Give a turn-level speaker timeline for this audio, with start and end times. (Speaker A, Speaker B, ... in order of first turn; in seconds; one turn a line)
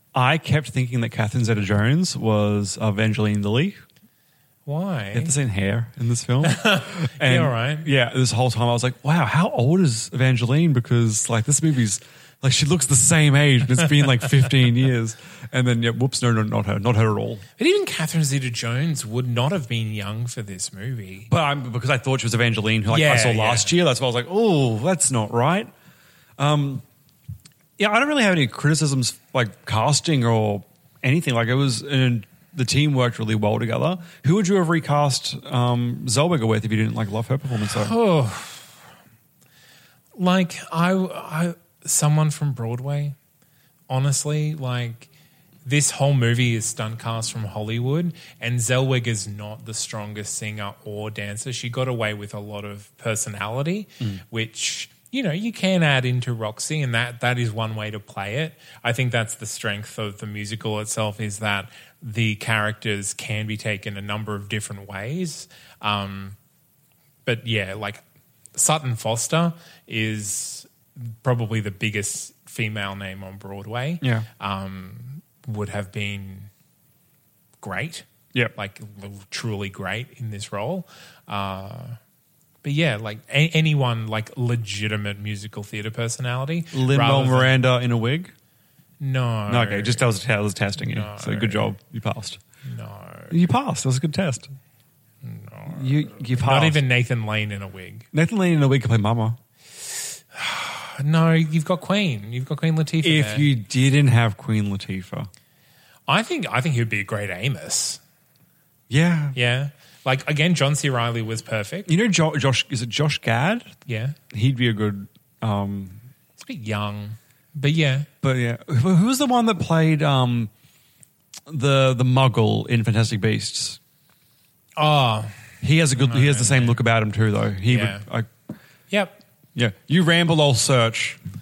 Speaker A: 0.1-3.8
Speaker B: 4.7-5.3
Speaker A: 5.1-17.4
Speaker B: 6.4-7.9
Speaker B: 17.6-21.3
Speaker A: 21.3-25.7
Speaker B: 22.9-23.7
Speaker A: 26.4-26.8
Speaker A: 27.8-37.9
Speaker B: 37.7-38.7
Speaker B: 40.1-43.1
Speaker B: 43.9-45.1
Speaker B: 45.6-66.4
Speaker B: 67.2-68.0
Speaker B: 68.5-76.5
Speaker A: 74.0-74.3
Speaker B: 77.6-82.0
Speaker B: 82.6-87.5
Speaker A: 86.7-88.3
Speaker B: 89.0-90.1
Speaker A: 89.5-92.4
Speaker B: 90.8-91.7
Speaker B: 92.7-93.3
Speaker A: 93.3-94.5
Speaker B: 95.2-98.1
Speaker A: 95.7-96.8
Speaker A: 98.1-99.4
Speaker B: 100.3-103.5
Speaker A: 103.0-105.3
Speaker B: 106.1-108.0
Speaker A: 108.9-109.3
Speaker B: 109.3-111.9
Speaker A: 111.8-113.8
Speaker B: 113.9-114.2
Speaker A: 114.3-116.0
Speaker B: 116.4-118.1
Speaker A: 118.2-120.5
Speaker A: 121.5-123.8
Speaker B: 124.8-125.3
Speaker A: 125.6-128.3
Speaker B: 126.0-126.8
Speaker B: 127.7-128.0
Speaker B: 128.9-129.2
Speaker A: 129.5-131.2